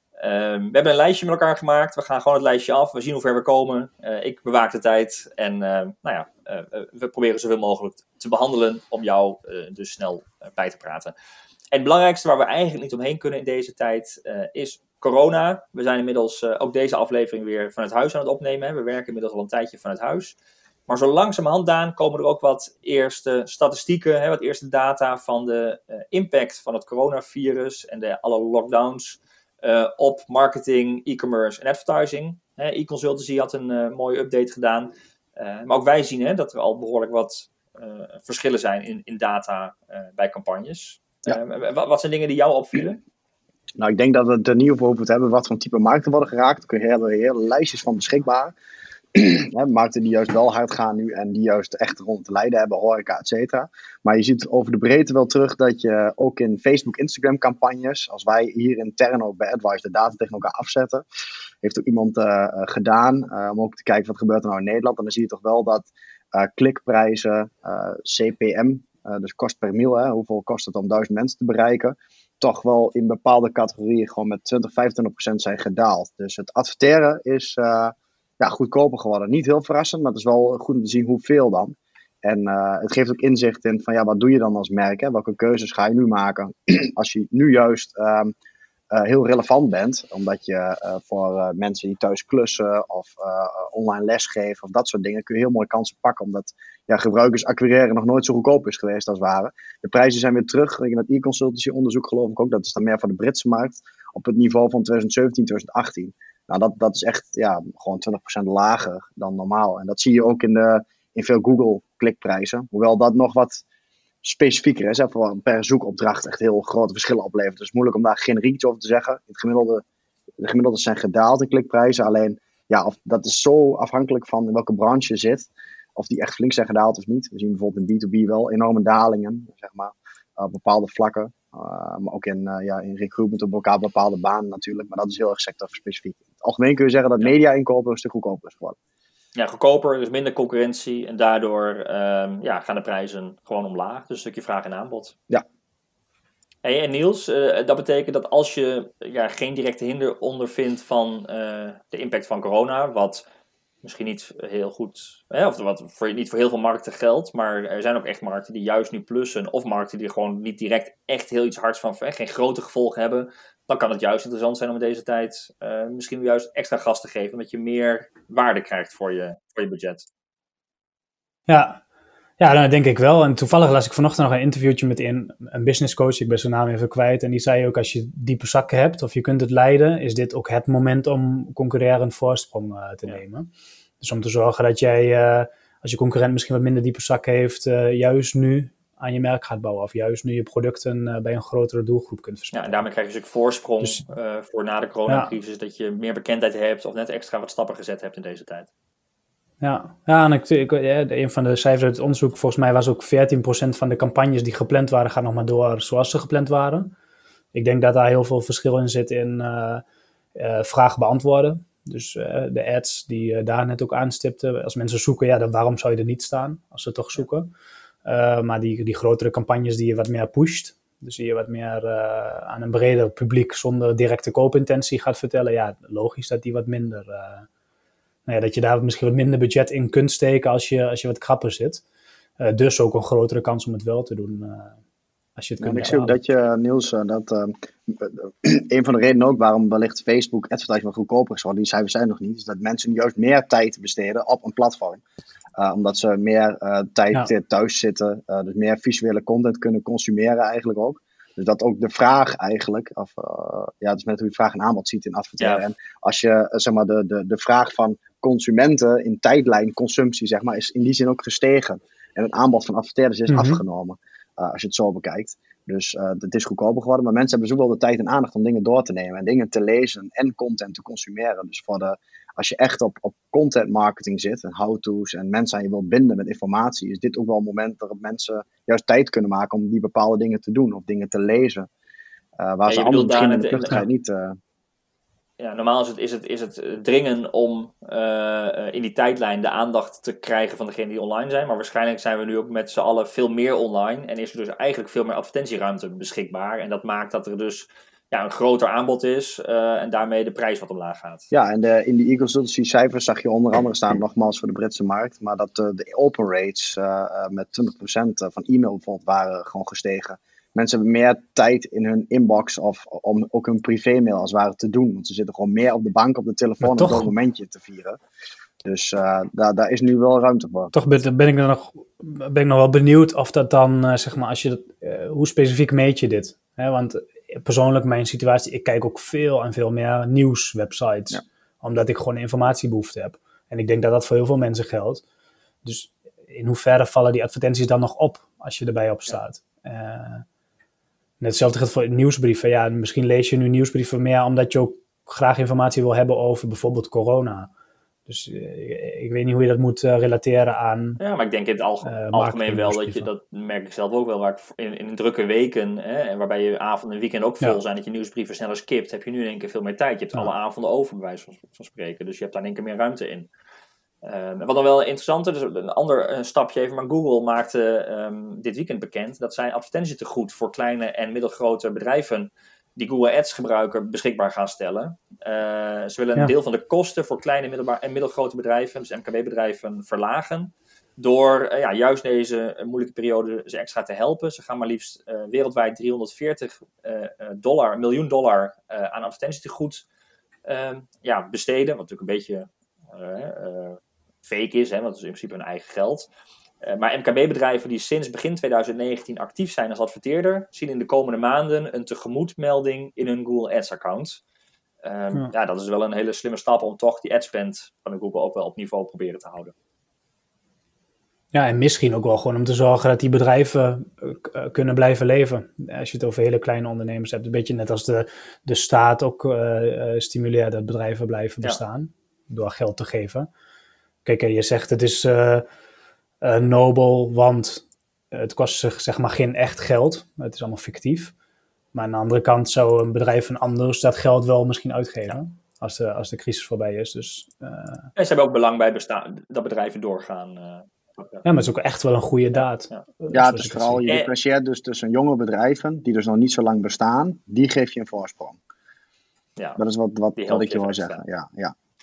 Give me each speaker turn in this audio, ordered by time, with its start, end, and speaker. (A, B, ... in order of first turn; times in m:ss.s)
0:00.2-0:11.1 A
0:11.7-0:20.4 A
0:20.9-0:43.0 A
0:43.8-0:48.5 B
0:49.1-1:01.0 B
1:01.6-1:28.4 B
1:28.9-1:53.6 B
1:54.2-1:59.8 B
2:00.4-2:18.8 B
2:19.4-2:25.2 A
2:26.6-2:33.2 A
2:33.8-2:50.1 A
2:51.5-2:51.8 C
2:52.4-3:12.8 C
3:12.5-3:18.7 A
3:15.1-3:15.3 C
3:19.6-3:26.9 C
3:27.5-3:29.8 C
3:30.4-3:37.5 C
3:38.0-3:47.5 C
3:48.3-3:51.8 C
3:52.4-3:54.8 C
3:55.4-3:56.2 C
3:55.6-4:05.0 B
4:05.6-4:41.7 B
4:23.3-4:23.6 C
4:42.4-4:44.4 B
4:42.7-4:43.8 A
4:45.4-5:01.3 A
5:01.3-5:18.0 B
5:16.6-5:17.1 C
5:18.6-5:20.7 B
5:20.7-5:35.0 C
5:35.6-5:40.2 C
5:41.2-5:47.5 C
5:48.1-5:51.0 C
5:51.0-6:03.3 A
5:51.8-5:53.1 C
6:04.0-6:29.8 A
6:30.5-6:36.1 A
6:36.6-6:44.2 A
6:44.8-6:49.5 A
6:51.3-7:03.3 C
7:04.0-7:05.5 C
7:06.2-7:11.1 C
7:11.7-7:17.9 C
7:18.0-7:21.2 A
7:21.2-7:23.8 C
7:22.3-7:22.8 A
7:23.1-7:28.4 B
7:29.6-7:31.5 B
7:30.2-7:31.0 A